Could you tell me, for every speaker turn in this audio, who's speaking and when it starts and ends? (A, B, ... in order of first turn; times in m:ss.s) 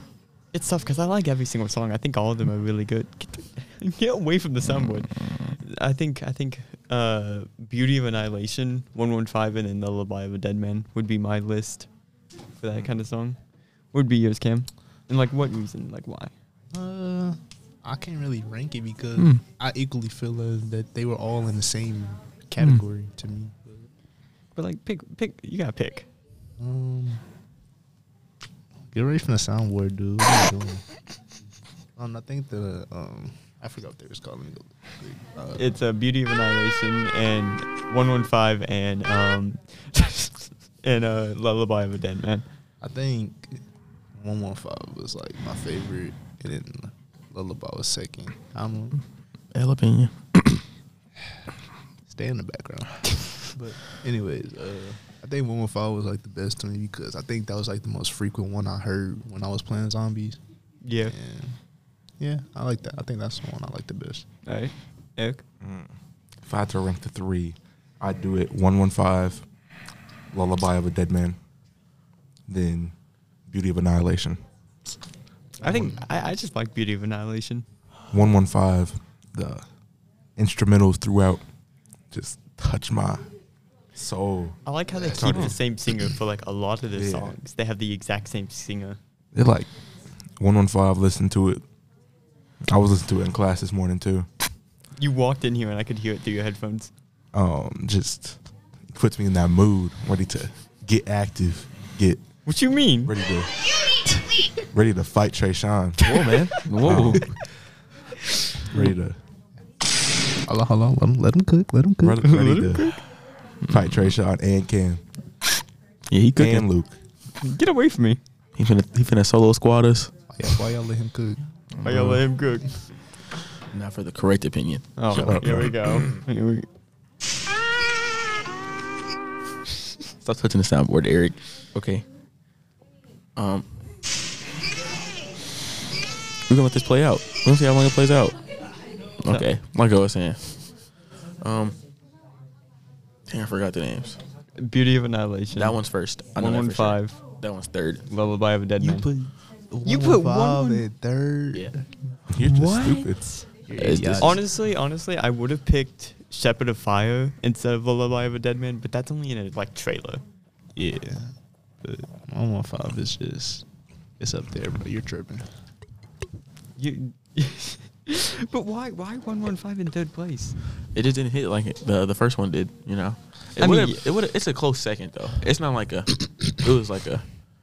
0:00.5-0:11.9 A
0:04.8-0:05.6 B
0:12.6-0:13.4 A
0:13.9-0:16.3 A
0:16.7-0:23.9 C
0:19.2-0:19.4 B
0:24.6-0:26.1 A
0:26.6-0:27.2 C
0:28.9-0:30.8 C
0:32.0-0:35.7 C
0:35.6-0:42.5 A
0:42.8-0:43.6 C
0:44.2-0:49.0 C
0:49.5-0:50.6 B
0:52.1-1:00.4 C
1:00.8-1:01.2 A
1:01.0-1:01.6 C
1:02.2-1:04.2 C
1:04.5-1:05.4 A
1:05.6-1:09.5 D
1:10.3-1:11.4 D
1:12.5-1:13.0 D
1:13.5-1:14.4 D
1:15.6-1:17.7 A
1:15.6-1:16.0 D
1:18.1-1:19.7 D
1:20.4-1:21.4 D
1:22.1-1:23.3 D
1:23.9-1:25.6 D
1:24.6-1:29.0 A
1:25.0-1:25.4 C
1:26.9-1:27.4 D
1:29.3-1:29.7 D
1:30.3-1:31.6 D
1:32.7-1:34.3 D
1:35.0-1:36.9 A
1:37.3-1:42.3 D
1:42.4-1:43.5 A
1:42.9-1:43.5 D
1:44.7-1:46.1 D
1:46.0-1:47.4 B
1:46.8-1:47.4 D
1:48.7-1:49.2 D
1:50.5-1:52.2 C
1:52.0-1:53.1 D
1:52.2-1:53.0 A
1:53.7-1:55.0 D
1:56.1-1:56.7 B
1:56.4-1:57.0 D
1:57.4-1:58.2 A
1:58.6-2:00.1 B
2:00.3-2:01.5 C
2:01.7-2:02.2 B
2:01.8-2:03.0 A
2:03.7-2:05.4 B
2:05.0-2:06.7 A
2:05.1-2:06.2 D
2:10.2-2:12.0 B
2:13.4-2:13.7 B
2:16.5-2:18.4 B
2:19.2-2:21.8 B
2:23.3-2:24.2 B
2:24.6-2:27.2 A
2:25.6-2:28.0 B
2:28.1-2:29.1 A
2:28.8-2:32.0 C
2:29.8-2:30.9 A
2:32.3-2:33.5 D
2:32.4-2:33.4 A
2:33.7-2:34.4 C
2:33.7-2:34.4 B
2:34.1-2:40.2 A
2:40.8-2:43.6 C
2:44.2-2:45.5 C
2:46.8-2:50.6 A
2:50.9-2:57.3 B
2:53.6-2:54.1 A